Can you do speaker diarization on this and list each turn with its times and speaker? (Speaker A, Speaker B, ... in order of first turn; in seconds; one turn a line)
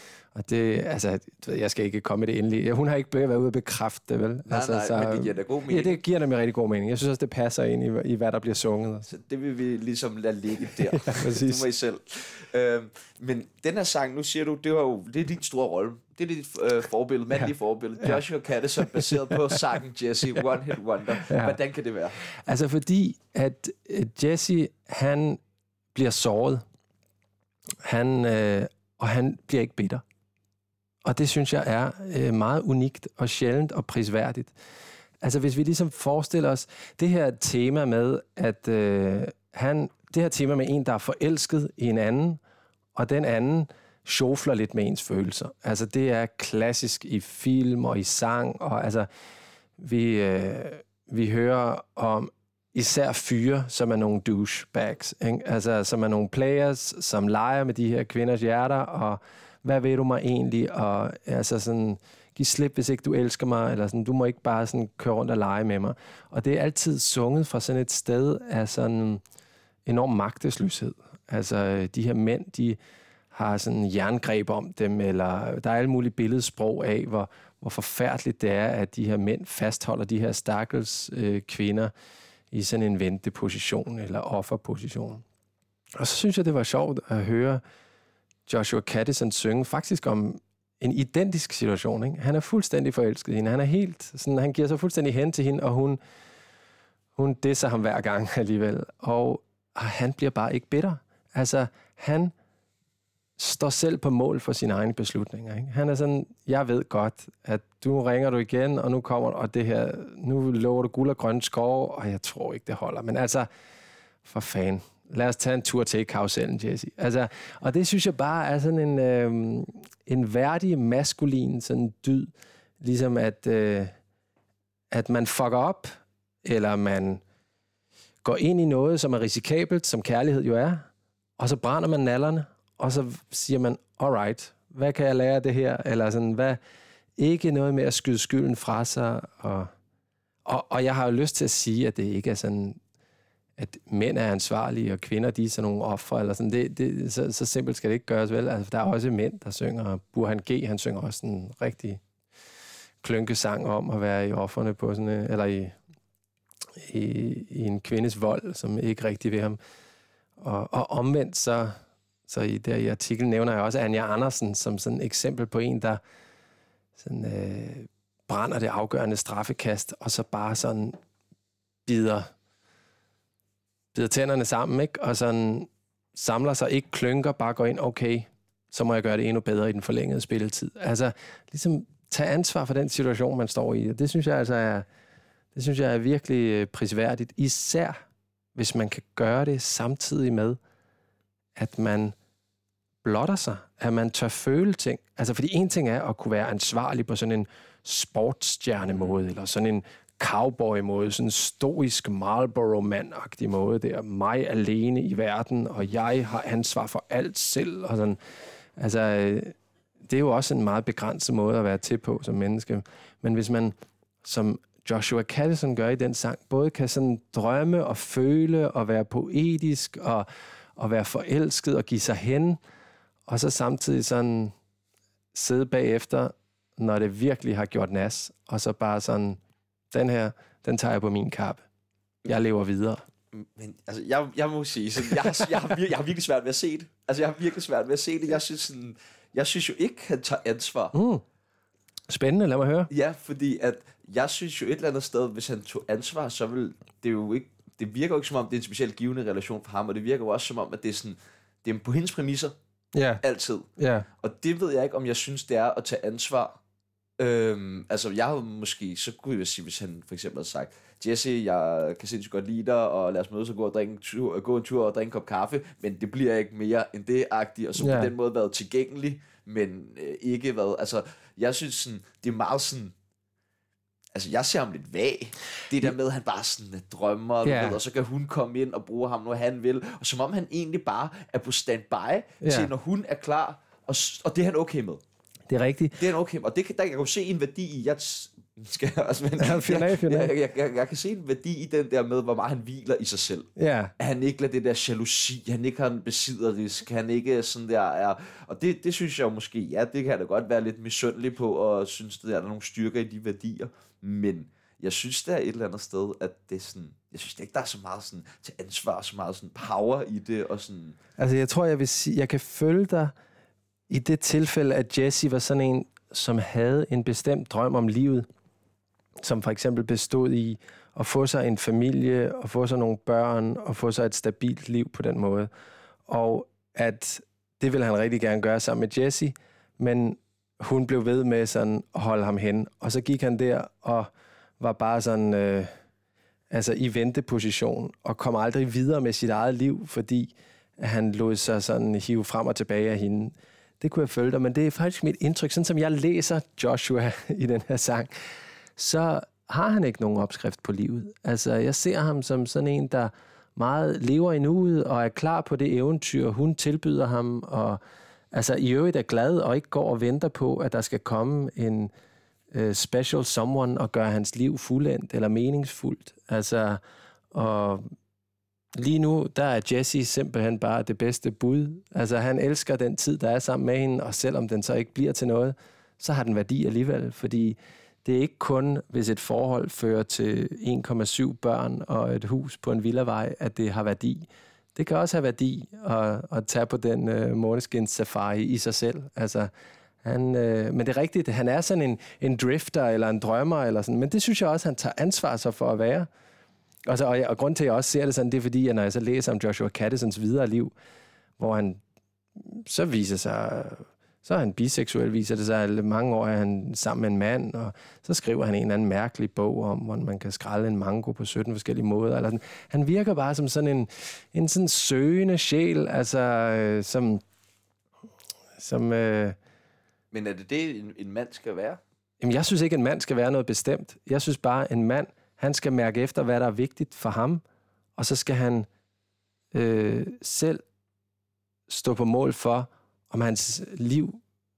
Speaker A: 0.3-9.1
Speaker B: 4.5-6.0
Speaker B: 9.1-22.2
Speaker A: 10.6-11.7
Speaker A: 18.9-19.4
Speaker A: 21.2-21.6
Speaker A: 22.2-25.4
Speaker A: 25.9-26.6
Speaker A: 27.8-30.0
Speaker A: 31.0-34.5
Speaker A: 35.2-42.4
Speaker A: 42.9-49.1
Speaker A: 49.8-69.2
Speaker A: 69.8-72.8
Speaker A: 73.3-81.9
Speaker A: 82.5-85.2
Speaker A: 86.0-87.6
Speaker A: 88.5-96.0
Speaker A: 97.2-102.3
Speaker A: 103.4-113.5
Speaker A: 114.2-123.9
Speaker A: 124.9-125.9
Speaker A: 126.4-127.2
Speaker A: 128.2-136.6
Speaker A: 137.2-139.7
Speaker A: 140.4-142.8
Speaker A: 143.6-152.0
Speaker A: 153.0-155.8
Speaker A: 156.8-159.6
Speaker A: 160.4-166.0
Speaker A: 167.0-171.0
Speaker A: 171.8-172.3
Speaker A: 173.9-184.9
Speaker A: 185.5-188.0
Speaker A: 188.5-190.6
Speaker A: 191.6-192.2
Speaker A: 193.0-208.2
Speaker B: 198.9-199.2
Speaker A: 208.8-222.6
Speaker A: 223.3-224.5
Speaker A: 225.3-229.4
Speaker A: 229.9-231.6
Speaker A: 232.2-233.0
Speaker B: 233.3-240.9
Speaker A: 235.2-235.6
Speaker A: 240.9-241.2
Speaker A: 242.1-242.9
Speaker B: 242.9-252.5
Speaker A: 252.9-253.2
Speaker B: 253.2-256.6
Speaker A: 253.8-254.1
Speaker B: 257.2-272.9
Speaker A: 267.8-268.1
Speaker B: 274.1-285.0
Speaker A: 277.4-277.8
Speaker A: 282.4-282.7
Speaker A: 285.5-286.0
Speaker B: 286.0-311.0
Speaker A: 289.4-290.3
Speaker A: 293.6-293.9
Speaker A: 311.2-313.1
Speaker A: 313.9-318.3
Speaker A: 319.2-325.5
Speaker A: 326.1-335.7
Speaker A: 336.5-348.1
Speaker A: 348.8-357.8
Speaker A: 358.3-361.9
Speaker A: 362.5-366.8
Speaker A: 367.3-367.9
Speaker A: 368.7-389.5
Speaker A: 390.0-396.1
Speaker A: 396.9-400.7
Speaker A: 401.4-401.8
Speaker A: 402.4-417.2
Speaker A: 418.6-419.4
Speaker B: 420.1-421.8
Speaker A: 422.2-427.4
Speaker A: 428.0-428.7
Speaker A: 429.5-430.6
Speaker A: 431.7-434.2